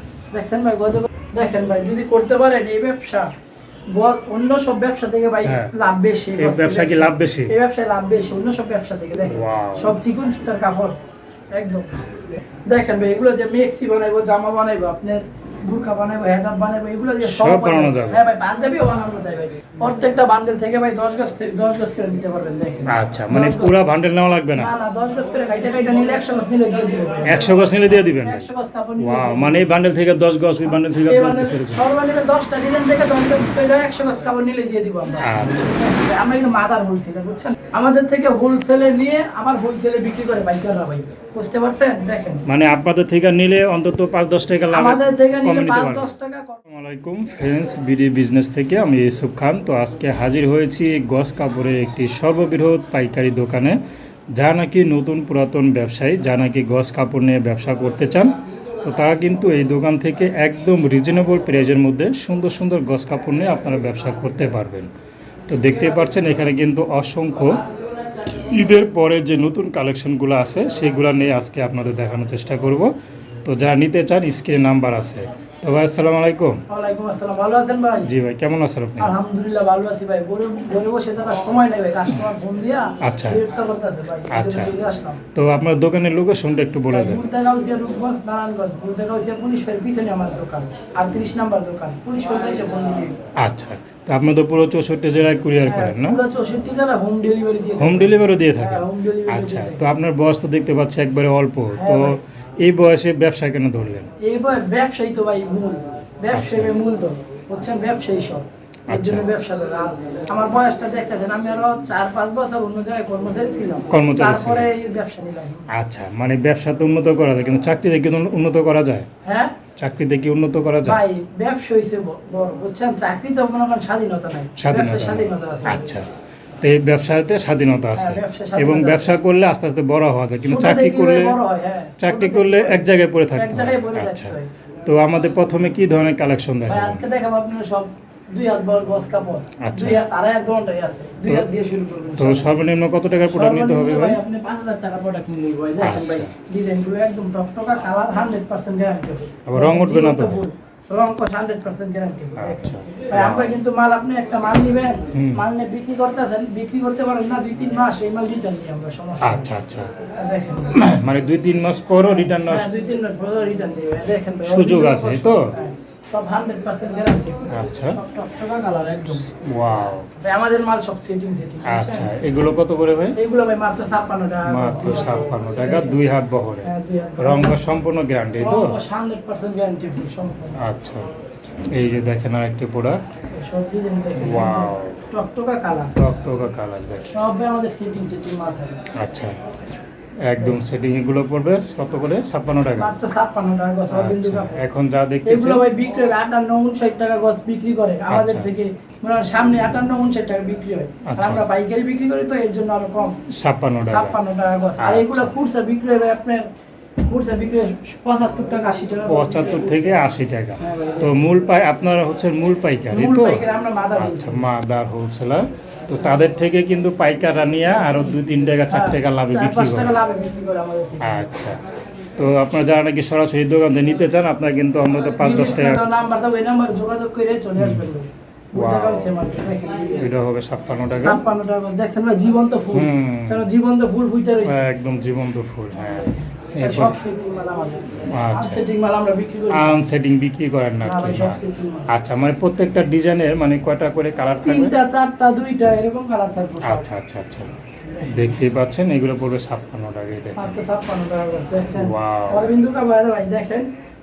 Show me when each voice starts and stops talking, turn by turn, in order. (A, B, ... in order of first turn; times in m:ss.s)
0:00.3-0:03.3 A
0:03.9-0:11.0 A
0:05.4-0:05.7 B
0:06.4-0:07.5 B
0:09.3-0:10.0 B
0:11.5-0:12.0 A
0:12.7-0:23.8 A
0:17.2-0:18.2 B
0:22.9-0:24.7 B
0:24.5-0:29.7 A
0:27.3-0:28.5 B
0:29.0-0:31.9 B
0:31.1-0:42.4 A
0:35.2-0:35.8 B
0:42.5-0:46.1 B
0:44.7-0:46.6 A
0:46.7-0:53.8 B
0:54.4-1:04.9 B
1:05.5-1:07.6 B
1:08.2-1:12.9 B
1:13.4-1:16.6 B
1:16.7-1:18.1 A
1:18.0-1:19.2 B
1:19.0-1:25.2 A
1:23.0-1:23.4 B
1:24.3-1:24.8 B
1:25.4-1:27.2 B
1:26.9-1:33.2 A
1:33.4-1:36.2 B
1:35.7-1:39.9 A
1:37.8-1:44.1 B
1:41.8-1:42.2 A
1:44.2-1:55.7 A
1:46.3-1:46.7 B
1:48.9-1:49.3 B
1:53.9-1:54.7 B
1:55.7-1:59.1 B
1:59.2-1:59.6 A
1:59.8-2:01.0 B
2:00.8-2:06.0 A
2:04.6-2:06.1 B
2:06.6-2:11.4 B
2:08.0-2:09.2 A
2:10.4-2:14.5 A
2:12.0-2:14.3 B
2:14.8-2:17.0 B
2:16.7-2:22.5 A
2:19.6-2:20.0 B
2:22.2-2:24.2 B
2:23.3-2:39.5 A
2:25.8-2:26.3 B
2:29.5-2:30.4 B
2:32.4-2:33.6 B
2:35.1-2:35.4 B
2:39.2-2:39.9 B
2:40.2-2:40.8 A
2:40.7-2:42.7 B
2:42.0-2:49.3 A
2:44.4-2:45.5 B
2:47.5-2:48.0 B
2:49.4-2:50.1 B
2:50.2-2:52.1 A
2:51.6-2:53.2 B
2:53.2-2:55.9 A
2:54.5-2:58.7 B
2:56.6-2:57.6 A
2:58.4-3:00.6 A
3:00.6-3:01.1 B
3:01.7-3:03.0 B
3:03.4-3:05.9 A
3:04.2-3:05.0 B
3:06.0-3:07.1 B
3:07.1-3:08.8 A
3:09.0-3:09.4 B
3:10.3-3:12.9 B
3:12.8-3:14.6 A
3:13.9-3:15.6 B
3:15.3-3:23.2 A
3:18.1-3:18.5 B
3:21.1-3:21.4 B
3:23.4-3:24.2 B
3:23.8-3:26.5 A
3:24.8-3:25.4 B
3:27.1-3:30.0 A
3:29.0-3:40.0 B
3:30.6-3:31.1 A
3:32.9-3:34.5 A
3:38.7-3:41.3 A
3:41.0-3:41.6 B
3:42.2-3:45.8 B
3:45.2-3:50.1 A
3:47.6-3:47.9 B
3:48.6-3:49.2 B
3:50.0-3:51.2 B
3:51.0-3:54.6 A
3:52.7-3:53.5 B
3:54.4-3:57.0 B
3:55.8-3:59.8 A
3:58.1-3:58.6 B
3:59.5-4:04.7 B
4:00.8-4:01.9 A
4:04.4-4:06.8 A
4:06.6-4:07.5 B
4:07.9-4:08.4 A
4:08.1-4:10.6 B
4:10.4-4:13.7 A
4:11.8-4:12.6 B